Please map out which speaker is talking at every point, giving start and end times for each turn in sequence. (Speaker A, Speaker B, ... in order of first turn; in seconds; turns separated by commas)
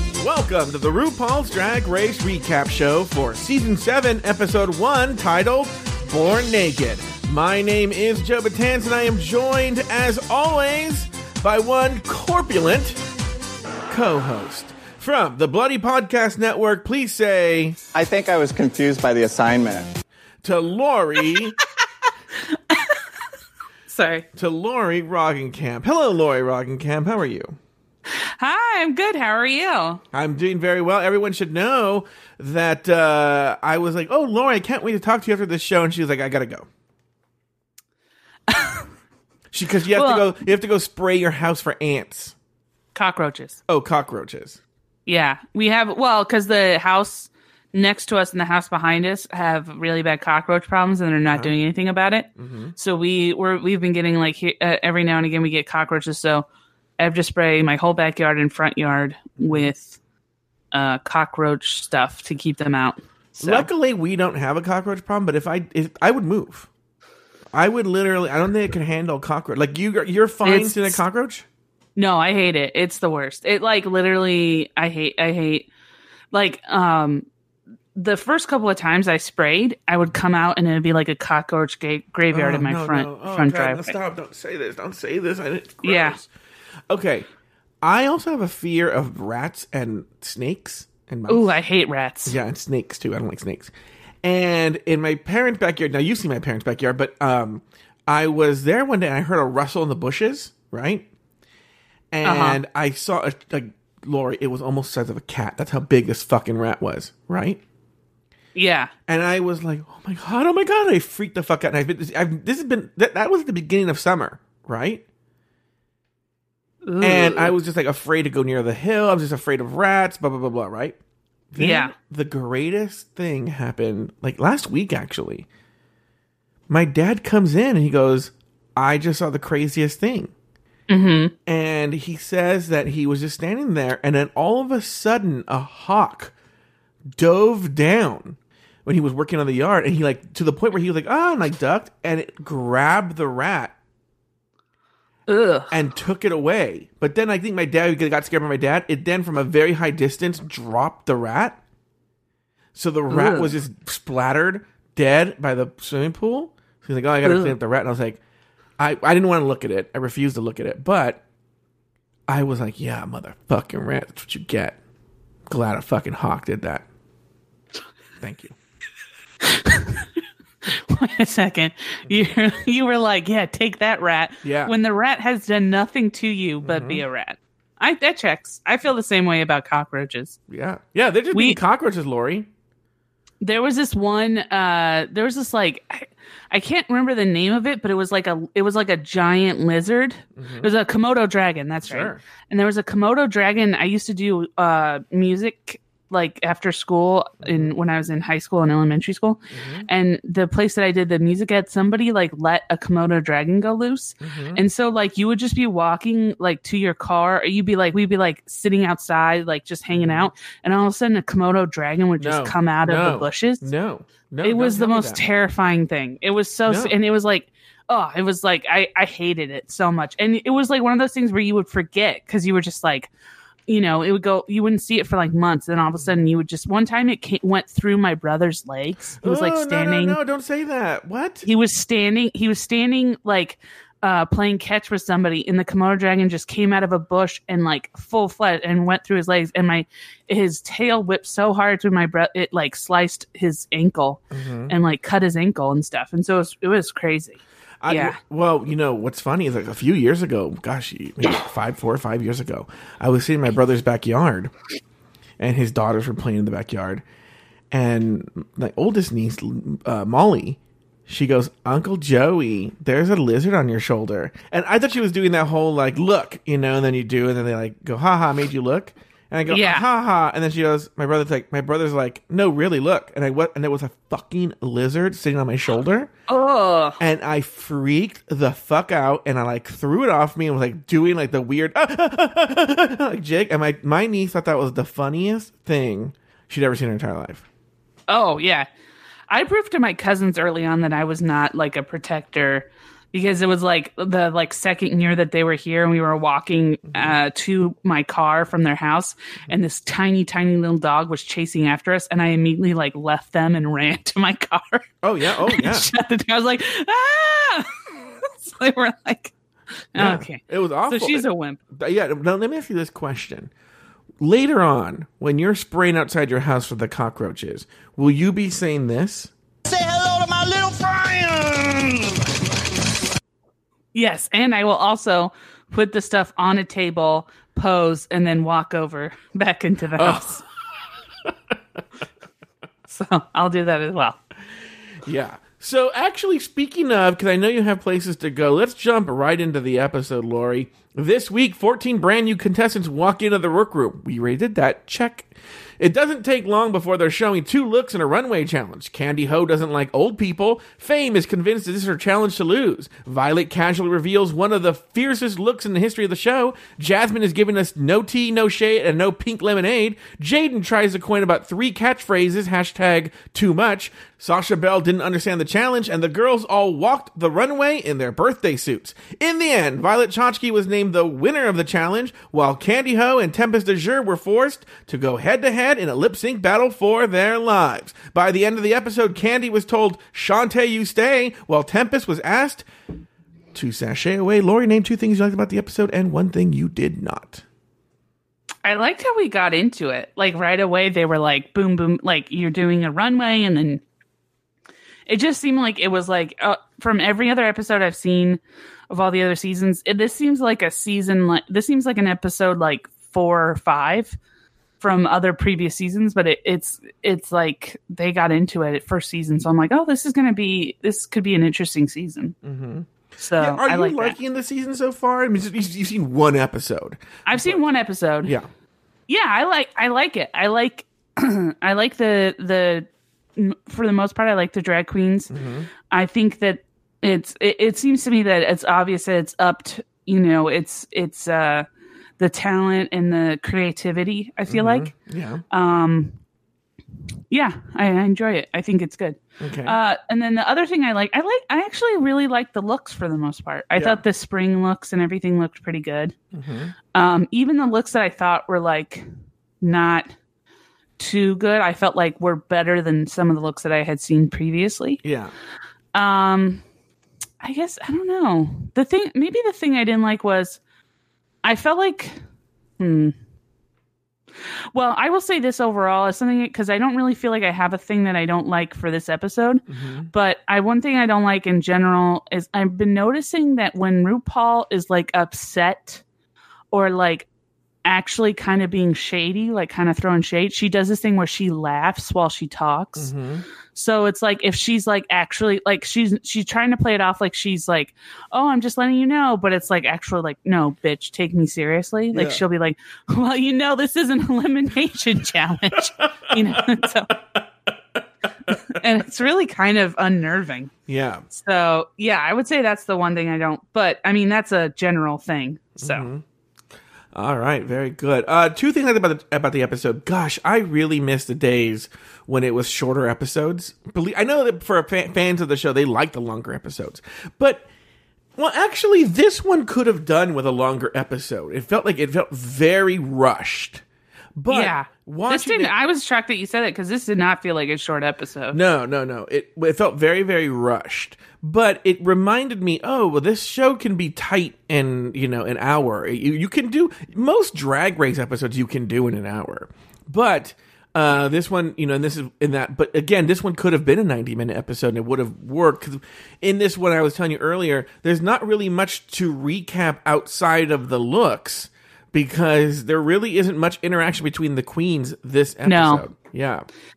Speaker A: 0.2-13.0, Speaker A: 13.9-17.8, Speaker B: 17.9-19.9, Speaker A: 20.4-21.6, Speaker C: 22.4-23.0, Speaker C: 23.9-24.2, Speaker A: 24.4-27.6, Speaker C: 28.1-30.0, Speaker A: 30.1-36.7, Speaker C: 38.5-38.9, Speaker A: 39.5-42.3, Speaker C: 39.9-40.3, Speaker C: 42.9-43.6, Speaker A: 43.7-44.6, Speaker C: 45.0-56.5, Speaker A: 51.3-51.5, Speaker A: 52.4-52.7, Speaker C: 57.0-60.0, Speaker A: 59.4-59.7, Speaker C: 60.7-63.7, Speaker A: 63.4-66.7, Speaker A: 67.5-71.4, Speaker C: 70.4-71.0, Speaker C: 72.0-75.7, Speaker C: 76.3-77.2, Speaker C: 77.9-84.0, Speaker A: 82.3-86.3, Speaker C: 85.8-86.2, Speaker A: 86.9-87.2, Speaker A: 87.8-91.5, Speaker C: 91.3-92.3, Speaker A: 92.2-93.7, Speaker A: 94.2-101.0, Speaker A: 102.1-107.6, Speaker C: 102.2-102.6, Speaker C: 108.5-108.9, Speaker A: 109.1-115.0, Speaker C: 116.8-117.5, Speaker A: 117.0-121.0, Speaker A: 121.5-125.5, Speaker C: 121.5-121.9, Speaker A: 126.7-130.3, Speaker C: 130.9-131.3, Speaker A: 131.4-136.3, Speaker A: 137.1-143.7, Speaker C: 145.3-145.7, Speaker A: 145.7-151.6, Speaker A: 152.7-158.2, Speaker C: 153.1-153.5, Speaker C: 157.2-157.5, Speaker A: 158.8-161.2, Speaker A: 162.3-164.8, Speaker A: 165.5-166.8, Speaker A: 168.2-168.5, Speaker C: 169.4-170.1, Speaker C: 170.6-180.4, Speaker A: 174.4-174.7, Speaker A: 176.6-177.0, Speaker A: 180.5-182.5, Speaker C: 181.3-181.6, Speaker C: 183.4-213.7, Speaker A: 190.3-190.7, Speaker A: 191.8-192.2, Speaker A: 197.4-197.7, Speaker A: 199.5-199.9, Speaker A: 204.2-204.6, Speaker A: 209.9-210.3, Speaker A: 212.2-215.2, Speaker C: 214.4-223.1, Speaker A: 216.7-216.9, Speaker C: 223.7-230.2, Speaker A: 229.2-231.5, Speaker C: 231.4-248.2, Speaker A: 244.3-244.7, Speaker A: 247.8-254.5, Speaker A: 255.4-257.0, Speaker A: 257.7-276.1, Speaker C: 269.5-269.8, Speaker C: 276.3-277.0, Speaker A: 277.0-287.4, Speaker C: 288.1-288.7, Speaker C: 289.3-309.3, Speaker A: 305.0-305.9, Speaker C: 309.9-311.6, Speaker A: 309.9-313.5, Speaker A: 314.2-319.3, Speaker B: 319.7-322.1, Speaker C: 323.9-330.4, Speaker A: 330.0-330.3, Speaker C: 332.9-334.2, Speaker A: 335.0-382.7, Speaker A: 383.5-387.4, Speaker C: 388.6-393.8, Speaker C: 395.1-404.2, Speaker C: 404.8-412.4, Speaker A: 412.4-417.6, Speaker C: 413.2-414.1, Speaker C: 417.2-418.3, Speaker C: 419.1-425.3, Speaker A: 425.3-425.7, Speaker C: 425.9-431.6, Speaker C: 432.2-434.9, Speaker A: 434.5-435.4, Speaker C: 435.5-436.2, Speaker C: 437.3-446.1, Speaker A: 439.4-439.8, Speaker A: 443.7-444.0, Speaker A: 446.3-446.7, Speaker C: 446.9-449.1, Speaker C: 449.6-450.1, Speaker C: 451.0-455.0, Speaker A: 455.0-455.3, Speaker C: 455.9-456.6, Speaker C: 457.4-460.6, Speaker C: 461.4-462.2, Speaker C: 462.8-463.1, Speaker C: 464.7-476.0, Speaker A: 469.7-470.1, Speaker C: 476.7-477.3, Speaker C: 477.8-483.1, Speaker A: 482.9-483.4, Speaker C: 483.7-497.1, Speaker A: 492.1-492.4, Speaker A: 496.0-496.9, Speaker C: 498.5-500.7, Speaker A: 498.5-498.8, Speaker A: 500.9-501.2, Speaker C: 501.3-506.1, Speaker A: 505.8-506.2, Speaker A: 507.1-517.6, Speaker A: 518.4-523.8, Speaker A: 524.4-525.7, Speaker C: 524.5-528.6, Speaker A: 528.5-556.7, Speaker C: 555.6-556.0